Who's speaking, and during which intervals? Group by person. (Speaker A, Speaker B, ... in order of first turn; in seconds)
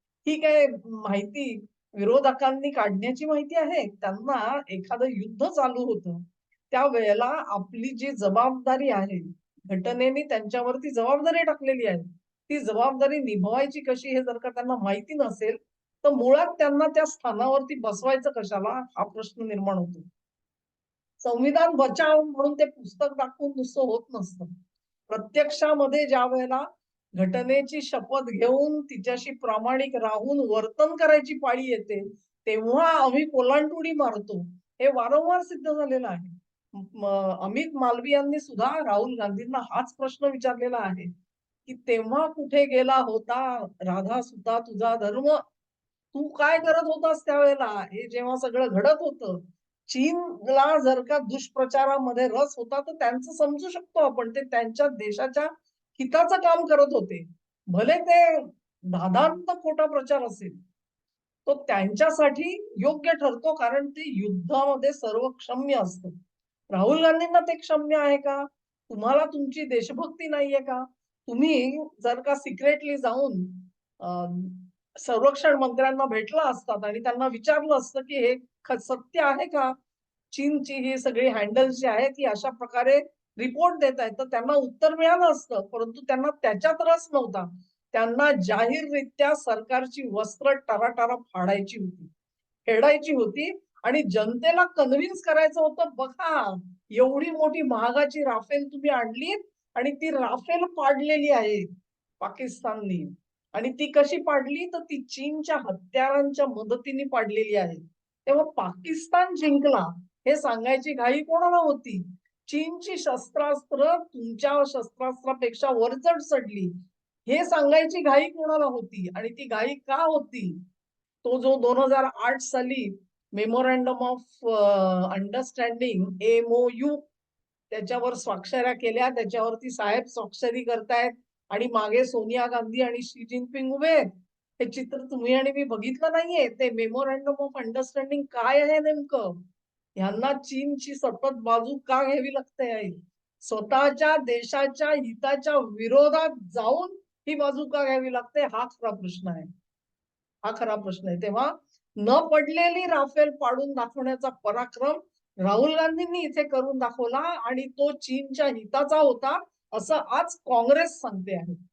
Speaker A: 0.2-20.0, 21.2-24.5, 25.1-26.6, 27.2-41.1, 41.6-45.4, 46.1-60.5, 61.5-66.1, 66.7-79.7, 80.3-92.1, 92.7-101.7, 102.2-116.7, 117.3-120.6, 121.2-127.0, 127.7-134.1, 134.6-139.4, 139.9-149.5, 150.4-161.6